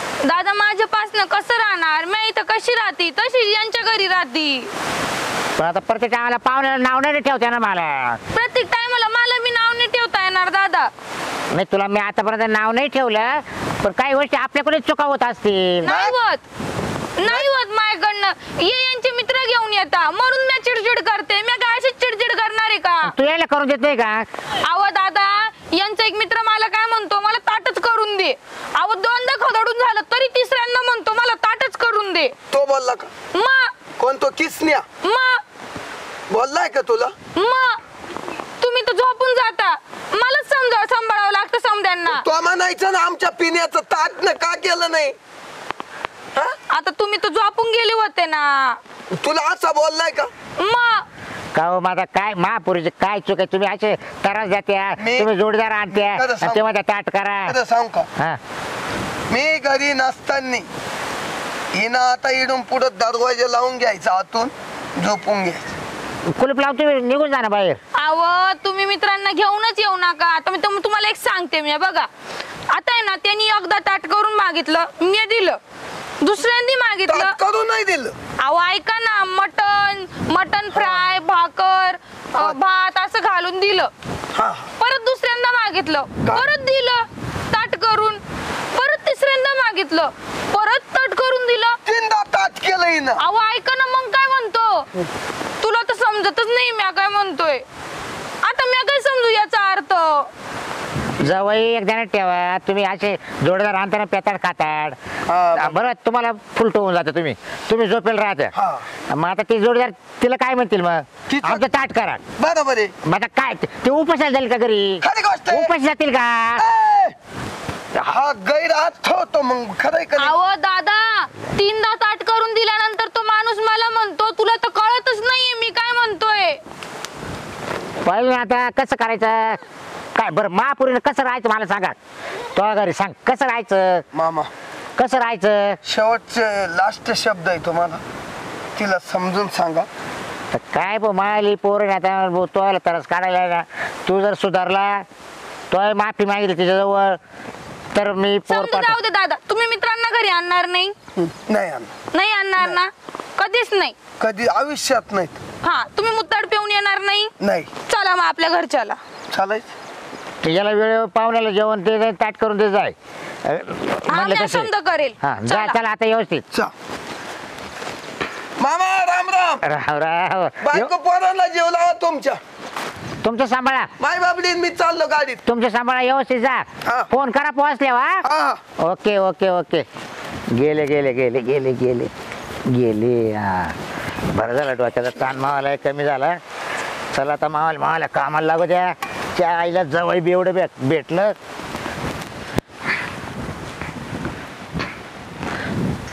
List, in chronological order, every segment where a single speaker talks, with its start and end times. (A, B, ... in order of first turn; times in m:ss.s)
0:00.2-0:04.7 A
0:05.6-0:08.2 B
0:08.3-0:10.9 A
0:11.5-0:15.9 B
0:15.8-0:16.4 A
0:15.8-0:16.2 C
0:17.2-0:23.1 A
0:23.0-0:24.3 B
0:24.6-0:32.3 A
0:32.5-0:33.1 C
0:33.3-0:33.7 A
0:34.0-0:34.8 C
0:35.0-0:35.4 A
0:36.3-0:37.1 C
0:37.4-0:37.8 A
0:38.6-0:42.2 A
0:42.1-0:45.2 C
0:46.7-0:48.8 A
0:49.2-0:50.3 C
0:50.6-0:51.1 A
0:51.6-0:57.6 B
0:55.0-0:55.3 C
0:55.9-0:56.6 C
0:57.5-0:58.1 C
0:59.3-1:00.7 C
1:01.7-1:05.7 C
1:06.3-1:07.8 B
1:08.0-1:12.1 A
1:12.7-1:15.6 A
1:16.2-1:17.4 A
1:17.1-1:18.2 C
1:18.4-1:23.9 A
1:20.7-1:21.0 C
1:24.4-1:24.7 C
1:24.8-1:28.2 A
1:28.7-1:31.8 A
1:31.9-1:33.2 C
1:33.2-1:34.9 A
1:35.6-1:37.6 A
1:38.4-1:40.3 A
1:41.2-1:45.0 B
1:45.3-1:45.8 C
1:45.6-1:48.6 B
1:48.6-1:48.9 C
1:49.1-1:52.2 B
1:51.3-1:51.6 C
1:52.4-1:52.9 C
1:53.0-1:56.6 B
1:55.0-1:55.7 C
1:56.6-1:57.2 C
1:58.0-2:00.4 C
2:00.2-2:06.6 A
2:08.0-2:09.6 B
2:10.2-2:12.0 B
2:12.5-2:14.1 B
2:14.1-2:14.5 C
2:15.0-2:15.8 B
2:15.8-2:18.0 C
2:18.8-2:19.9 C
2:20.5-2:25.1 B
2:25.7-2:27.2 B
2:28.0-2:29.0 B
2:28.5-2:31.0 A
2:31.2-2:31.9 C
2:32.1-2:34.0 A
2:34.2-2:35.4 C
2:35.6-2:37.3 A
2:37.4-2:37.7 C
2:37.9-2:39.0 A
2:39.3-2:39.7 C
2:40.4-2:44.7 B
2:44.1-2:45.8 A
2:45.2-2:46.4 B
2:48.6-2:49.6 C
2:49.6-2:50.9 B
2:50.6-2:52.4 C
2:53.2-2:53.9 B
2:54.0-2:55.4 C
2:55.5-2:58.2 B
2:58.2-2:58.6 C
2:58.8-2:59.9 B
3:00.5-3:02.1 B
3:02.7-3:03.8 B
3:04.3-3:06.4 B
3:07.1-3:11.4 B